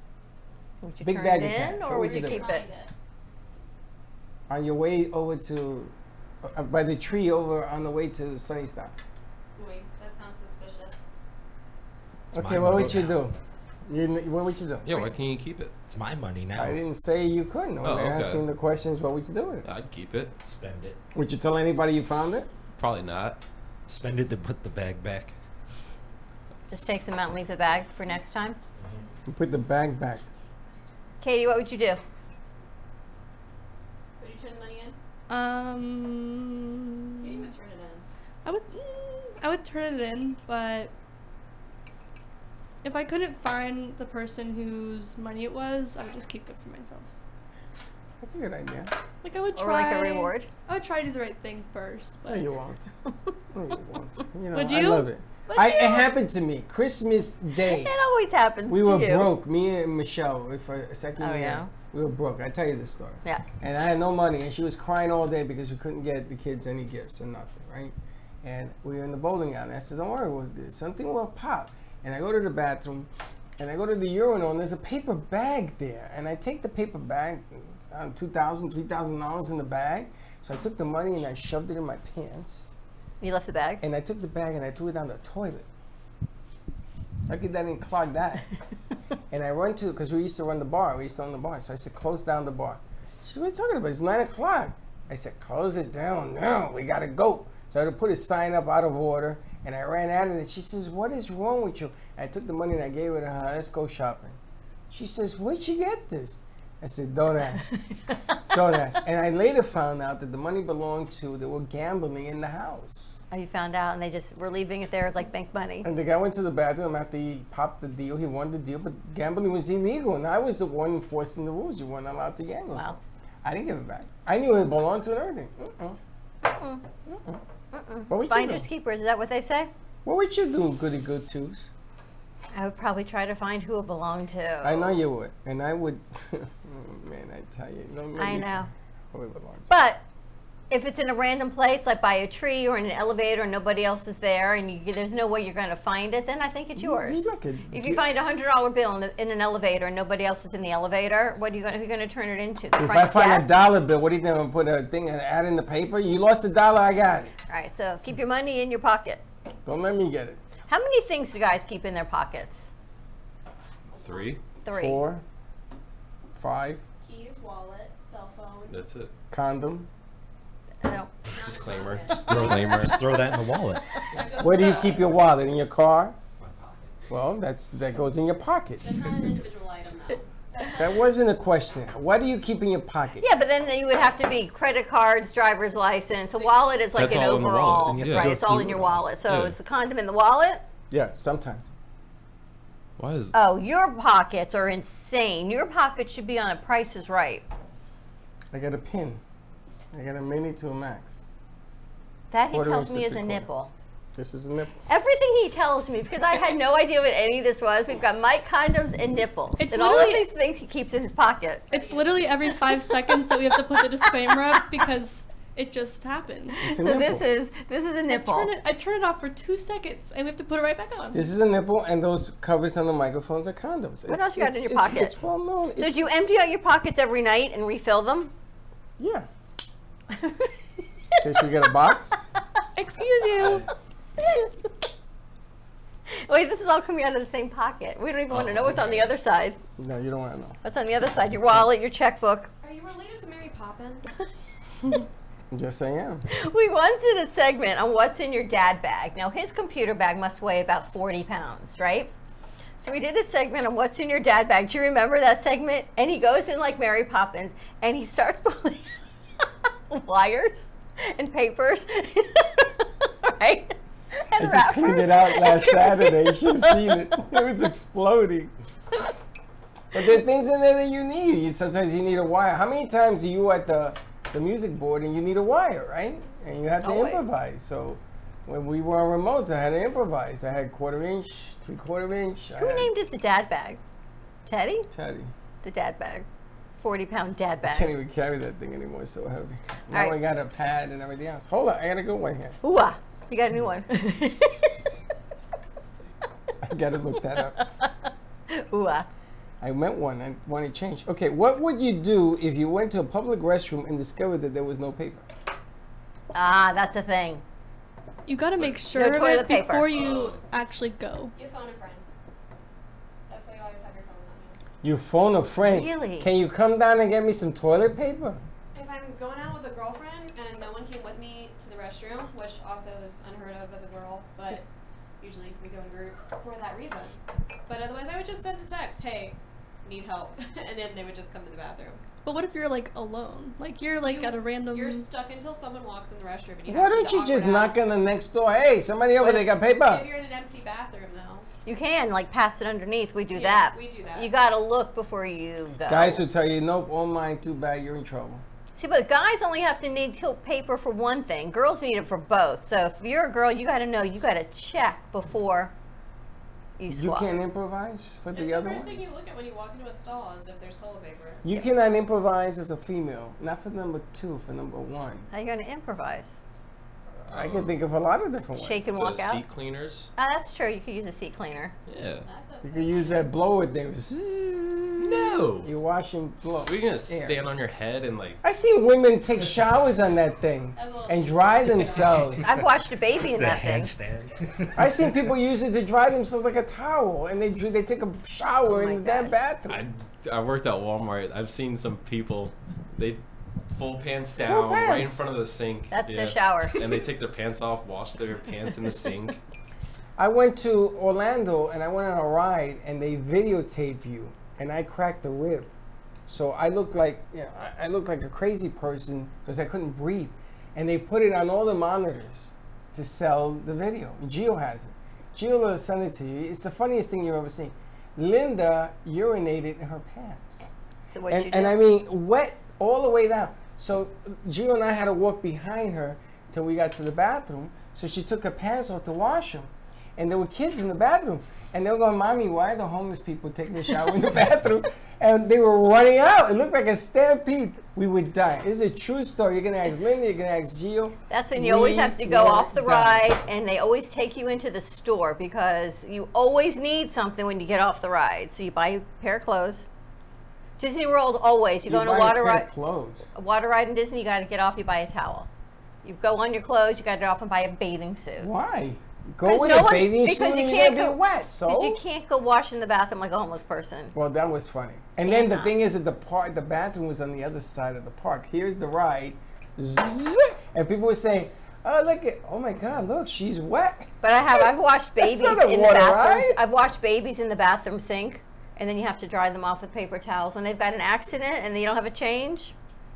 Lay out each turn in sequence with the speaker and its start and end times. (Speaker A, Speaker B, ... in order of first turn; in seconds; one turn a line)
Speaker A: 0.8-2.6
Speaker B: 1.0-2.5
Speaker C: 2.0-2.9
Speaker B: 4.5-5.9
Speaker B: 6.4-8.9
Speaker C: 9.6-11.1
Speaker B: 12.3-13.3
Speaker D: 12.3-13.3
Speaker E: 12.7-13.1
Speaker B: 13.9-15.1
Speaker E: 14.8-15.7
Speaker D: 15.9-16.8
Speaker B: 16.6-19.6
Speaker E: 17.8-18.4
Speaker E: 19.6-20.3
Speaker D: 20.4-21.0
Speaker B: 21.1-22.5
Speaker E: 22.8-23.4
Speaker D: 23.9-25.3
Speaker A: 26.7-28.6
Speaker D: 28.8-29.1
Speaker B: 29.3-30.2
Speaker A: 31.2-32.0
Speaker C: 34.2-35.0
Speaker F: 35.3-37.5
Speaker C: 37.2-38.1
Speaker F: 38.4-40.9
Speaker F: 42.8-47.1
Speaker B: 48.2-48.9
Speaker F: 49.2-52.5
Speaker A: 49.5-50.5
Speaker B: 52.3-52.9
Speaker B: 53.5-57.9
Speaker F: 54.5-56.1
Speaker A: 57.5-59.3
Speaker B: 58.7-82.7
Speaker A: 61.2-61.7
Speaker A: 83.2-83.8
Speaker B: 83.8-85.7
Speaker B: 87.3-88.5
Speaker B: 89.3-104.4
Speaker B: 104.9-107.7
Speaker B: 108.5-113.2
Speaker A: 113.3-115.9
Speaker B: 115.8-126.0
Speaker A: 126.4-126.8
Speaker B: 127.0-127.4
Speaker A: 127.7-129.7
Speaker B: 128.1-128.7
Speaker B: 130.0-131.7
Speaker A: 132.5-135.0
Speaker B: 134.6-139.7
Speaker A: 138.2-138.7
Speaker A: 139.7-140.0
Speaker A: 140.7-153.5
Speaker B: 146.8-148.0
Speaker B: 152.8-157.3
Speaker A: 157.5-159.2
Speaker B: 159.6-160.4
Speaker A: 160.7-162.7
Speaker E: 164.0-164.4
Speaker A: 164.6-165.0
Speaker B: 164.7-165.2
Speaker B: 166.3-166.8
Speaker C: 167.0-168.8
Speaker E: 168.7-169.1
Speaker B: 169.3-169.9
Speaker A: 170.8-171.1
Speaker C: 171.3-172.8
Speaker E: 171.3-173.0
Speaker D: 172.1-174.0
Speaker C: 174.1-175.2
Speaker B: 174.4-176.2
Speaker D: 176.4-177.0
Speaker B: 177.1-179.0
Speaker C: 178.8-181.1
Speaker B: 180.8-183.2
Speaker A: 183.2-190.6
Speaker C: 186.3-187.0
Speaker E: 186.9-188.3
Speaker D: 187.8-189.1
Speaker E: 189.3-189.6
Speaker B: 190.9-191.7
Speaker E: 193.0-193.3
Speaker A: 193.3-197.5
Speaker B: 198.5-199.2
Speaker B: 199.9-201.2
Speaker A: 202.3-203.7
Speaker B: 202.5-203.5
Speaker B: 204.1-204.8
Speaker A: 204.9-211.7
Speaker F: 209.6-210.3
Speaker C: 211.7-212.6
Speaker F: 211.7-216.6
Speaker A: 212.7-214.8
Speaker A: 216.5-218.5
Speaker B: 216.6-217.2
Speaker F: 218.1-221.3
Speaker B: 221.1-226.0
Speaker A: 224.1-225.1
Speaker A: 225.8-228.3
Speaker B: 229.0-229.3
Speaker A: 230.1-230.5
Speaker B: 231.2-232.2
Speaker F: 232.8-233.7
Speaker E: 233.4-233.6
Speaker A: 234.2-234.5
Speaker A: 236.1-239.6
Speaker E: 238.3-239.1
Speaker B: 239.8-240.6
Speaker A: 240.6-242.5
Speaker C: 242.6-244.1
Speaker B: 245.5-246.2
Speaker A: 246.3-252.1
Speaker A: 252.8-258.9
Speaker A: 259.9-266.9
Speaker B: 264.4-268.5
Speaker B: 269.9-282.9
Speaker A: 276.8-277.2
Speaker A: 282.6-283.8
Speaker A: 284.4-284.9
Speaker B: 284.9-285.3
Speaker A: 285.6-286.3
Speaker A: 286.8-287.9
Speaker B: 287.6-292.6
Speaker A: 289.9-290.2
Speaker A: 292.6-294.8
Speaker B: 296.6-297.6
Speaker A: 297.4-297.9
Speaker A: 298.5-299.1
Speaker B: 299.6-305.3
Speaker A: 306.3-307.4
Speaker F: 308.2-311.3
Speaker E: 308.6-308.8
Speaker A: 308.9-309.9
Speaker E: 309.9-310.4
Speaker C: 311.3-312.0
Speaker C: 313.3-314.6
Speaker B: 314.8-318.4
Speaker A: 315.6-316.3
Speaker C: 318.7-324.6
Speaker C: 325.2-332.0
Speaker F: 332.2-335.1
Speaker C: 334.0-337.8
Speaker B: 336.7-340.1
Speaker A: 339.2-339.4
Speaker C: 339.6-341.5
Speaker A: 341.6-346.2
Speaker C: 343.3-344.3
Speaker B: 345.9-348.4
Speaker A: 348.8-355.7
Speaker A: 356.8-357.3
Speaker B: 356.9-359.0
Speaker C: 358.3-361.4
Speaker B: 361.4-365.3
Speaker A: 365.3-366.4
Speaker B: 367.2-368.9
Speaker E: 367.3-367.8
Speaker A: 368.6-369.4
Speaker E: 368.9-370.1
Speaker A: 370.1-371.7
Speaker E: 371.9-372.2
Speaker C: 372.2-373.3
Speaker B: 372.6-377.4
Speaker E: 375.0-375.7
Speaker E: 376.6-378.4
Speaker B: 378.4-382.5
Speaker C: 380.7-382.4
Speaker A: 382.4-383.9
Speaker D: 383.3-385.2
Speaker B: 384.8-389.8
Speaker A: 388.6-389.4
Speaker E: 389.7-399.4
Speaker B: 394.4-395.3
Speaker A: 395.9-396.8
Speaker B: 400.2-405.7
Speaker B: 406.3-420.7
Speaker A: 421.1-421.8
Speaker B: 421.3-443.3
Speaker A: 441.3-449.9
Speaker A: 450.8-452.7
Speaker B: 451.9-453.3
Speaker A: 453.3-455.5
Speaker A: 456.0-458.5
Speaker B: 458.4-462.0
Speaker A: 459.4-464.1
Speaker B: 464.1-476.6
Speaker A: 465.2-465.7
Speaker A: 474.2-482.7